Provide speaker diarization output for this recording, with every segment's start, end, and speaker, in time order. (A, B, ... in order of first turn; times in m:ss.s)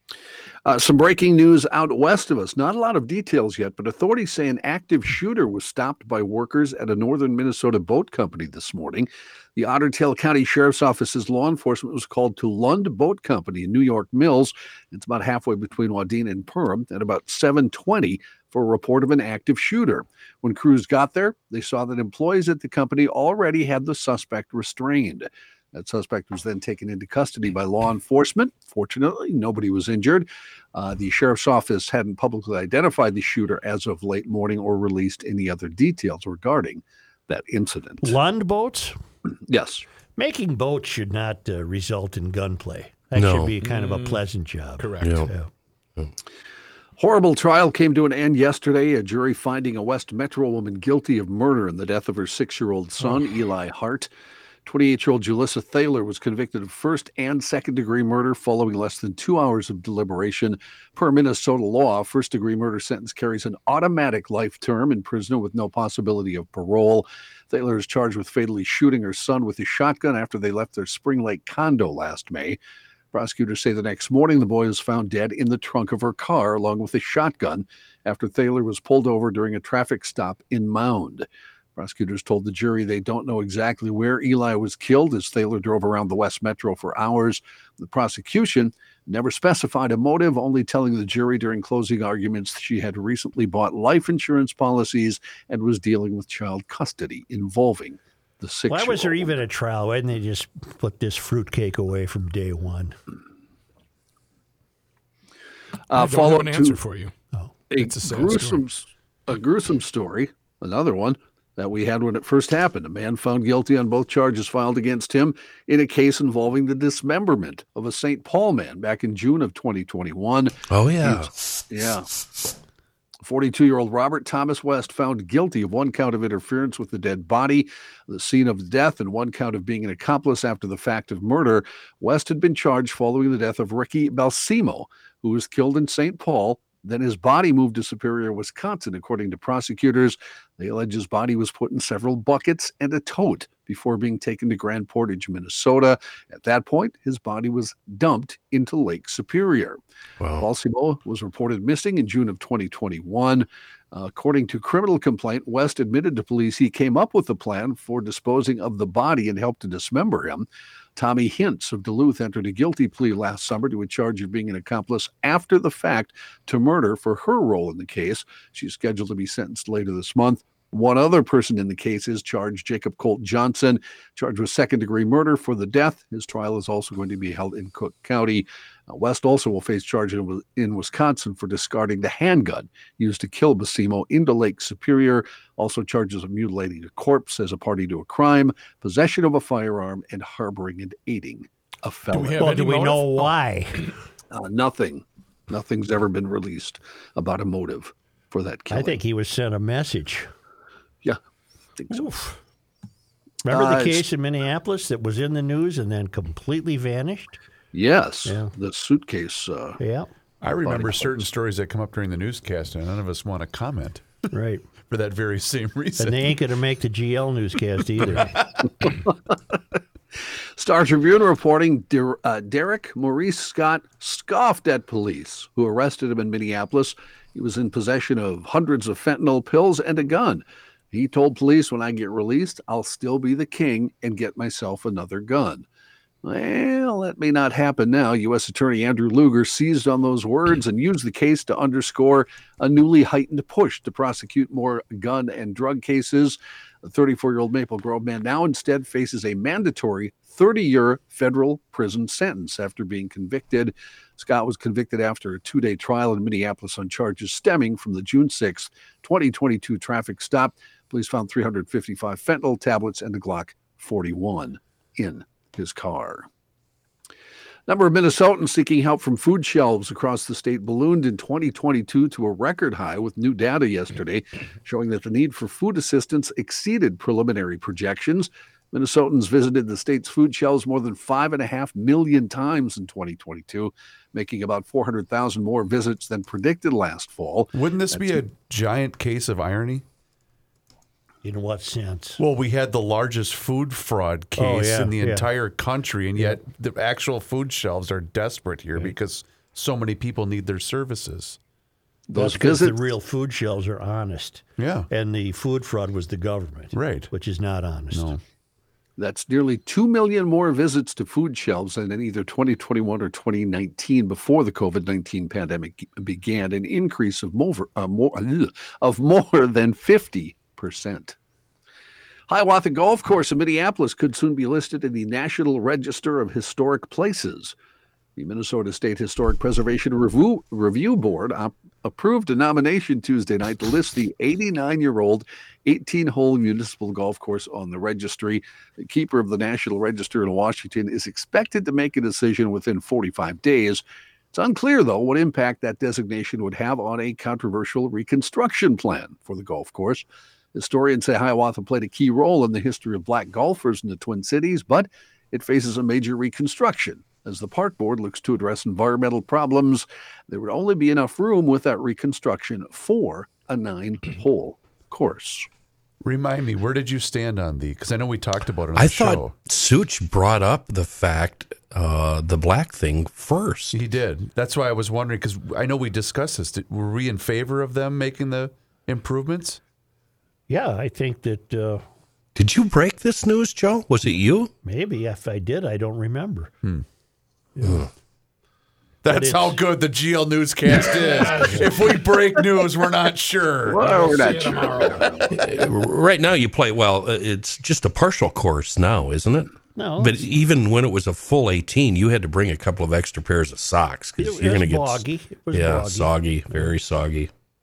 0:00.6-0:38.2 A
0:38.0-0:38.9 B
0:39.5-0:39.8 A
0:40.2-0:45.5 B
0:43.1-0:43.5 C
0:43.6-0:44.2 D
0:44.8-0:45.2 D
0:45.0-0:45.3 C
0:47.0-0:54.1 A
0:54.6-1:12.6 A
1:13.1-1:39.3 A
1:38.7-1:43.0 B
1:45.9-1:46.8 A
1:45.9-1:47.1 D
1:47.7-2:02.1 A
1:47.8-1:48.6 D
2:00.7-2:01.3 C
2:03.2-2:29.8 A
2:30.2-2:30.4 C
2:30.4-3:12.5 A
3:12.1-3:13.9 D
3:12.4-3:13.9 B
3:14.3-3:19.0 A
3:18.7-3:20.3 B
3:21.8-3:22.1 A
3:23.4-3:27.4 B
3:23.5-3:24.0 A
3:27.7-3:29.8 A
3:28.2-3:28.5 B
3:29.8-3:30.1 B
3:30.4-3:34.1 E
3:30.6-3:31.3 A
3:34.3-3:34.6 B
3:34.9-3:36.4 E
3:36.0-3:38.4 B
3:38.0-3:38.4 E
3:38.8-3:39.3 A
3:40.6-3:55.6 A
3:56.2-4:26.2 A
4:27.7-4:48.1 A
4:47.5-4:49.8 E
4:51.2-4:52.2 B
4:52.2-5:01.4 E
4:54.4-4:55.3 B
5:02.1-5:02.8 A
5:02.1-5:08.2 B
5:04.6-5:04.9 E
5:06.7-5:07.1 E
5:07.9-5:08.2 E
5:09.0-5:21.2 A
5:22.3-5:27.5 A
5:28.2-6:05.5 A
6:06.0-6:09.3 E
6:08.7-6:13.8 C
6:13.7-6:19.6 E
6:20.5-6:21.8 B
6:22.3-6:24.5 C
6:24.6-6:26.5 B
6:27.6-6:27.8 B
6:29.0-6:34.1 E
6:29.1-6:29.6 B
6:31.0-6:31.6 D
6:33.6-6:35.4 A
6:33.7-6:35.2 D
6:35.4-6:47.3 C
6:39.7-6:40.3 B
6:44.2-6:46.7 B